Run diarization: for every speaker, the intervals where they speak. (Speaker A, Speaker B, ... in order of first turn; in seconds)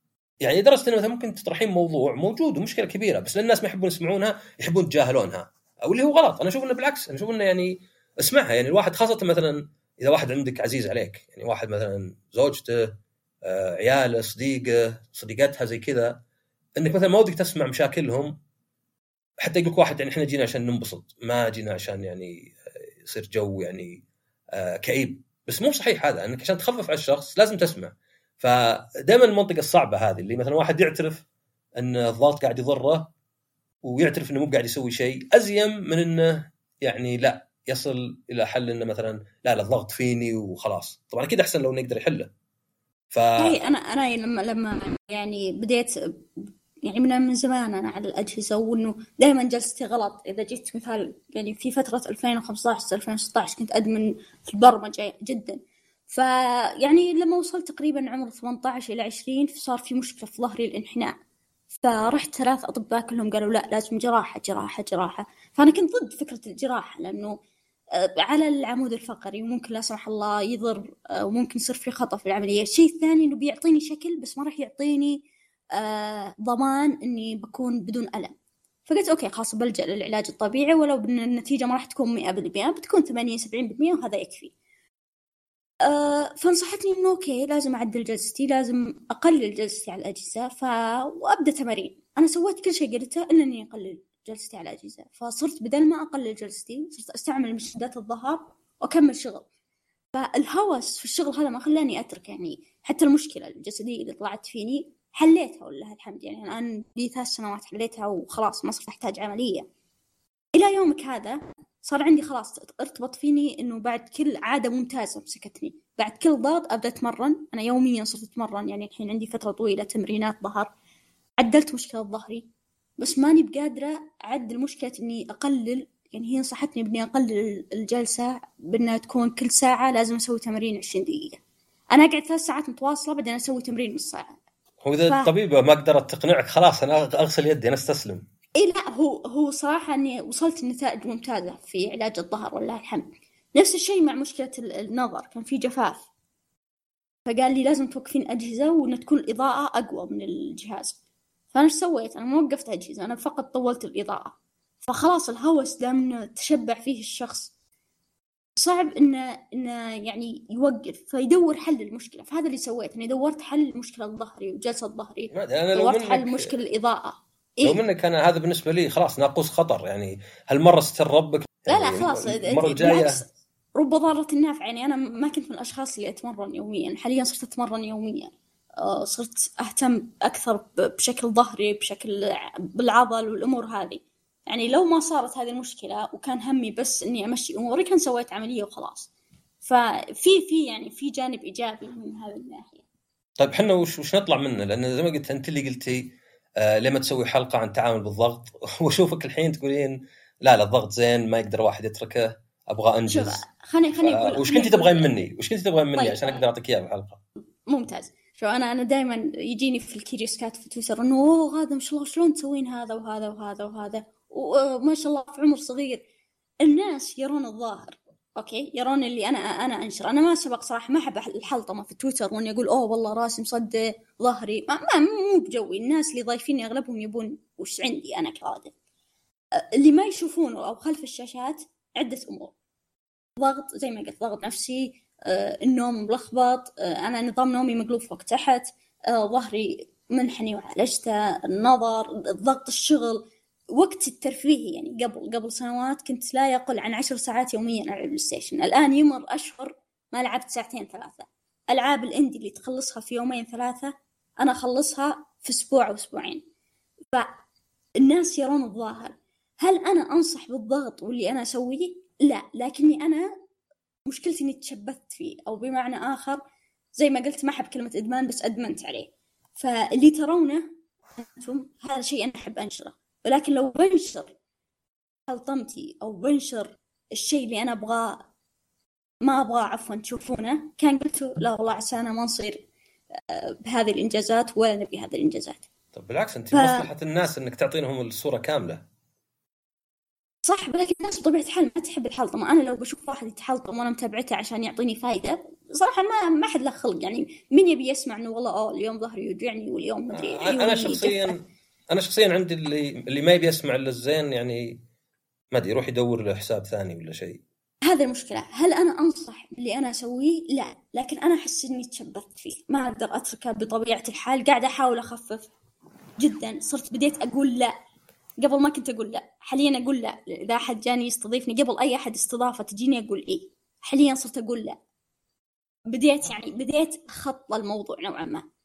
Speaker A: 0.4-16.2, 16.8-18.3, 19.4-24.0, 24.5-31.2, 31.8-33.1, 33.8-42.3, 43.1-43.6, 134.8-138.2, 165.3-166.5, 167.6-173.2, 193.4-203.4, 204.0-207.2, 285.9-288.8, 300.1-304.8, 305.5-307.4
Speaker B: 43.4-61.1, 61.8-67.4, 67.9-78.3, 78.9-84.5, 85.8-99.5, 100.1-109.7, 110.5-120.7, 121.4-122.5, 123.0-131.4, 131.9-134.3, 138.5-146.1, 147.2-151.0, 151.5-157.5, 158.6-167.8, 171.7-189.1, 189.6-192.8, 203.1-205.1, 205.9-206.4, 207.7-216.0, 216.6-228.7, 229.6-232.5, 233.4-256.4, 258.0-263.3, 264.0-266.4, 266.9-274.3, 275.3-278.3, 279.2-282.6, 283.3-285.6, 286.5-286.9, 290.4-301.4, 307.8-315.5, 316.2-317.7, 318.4-324.8, 325.9-328.4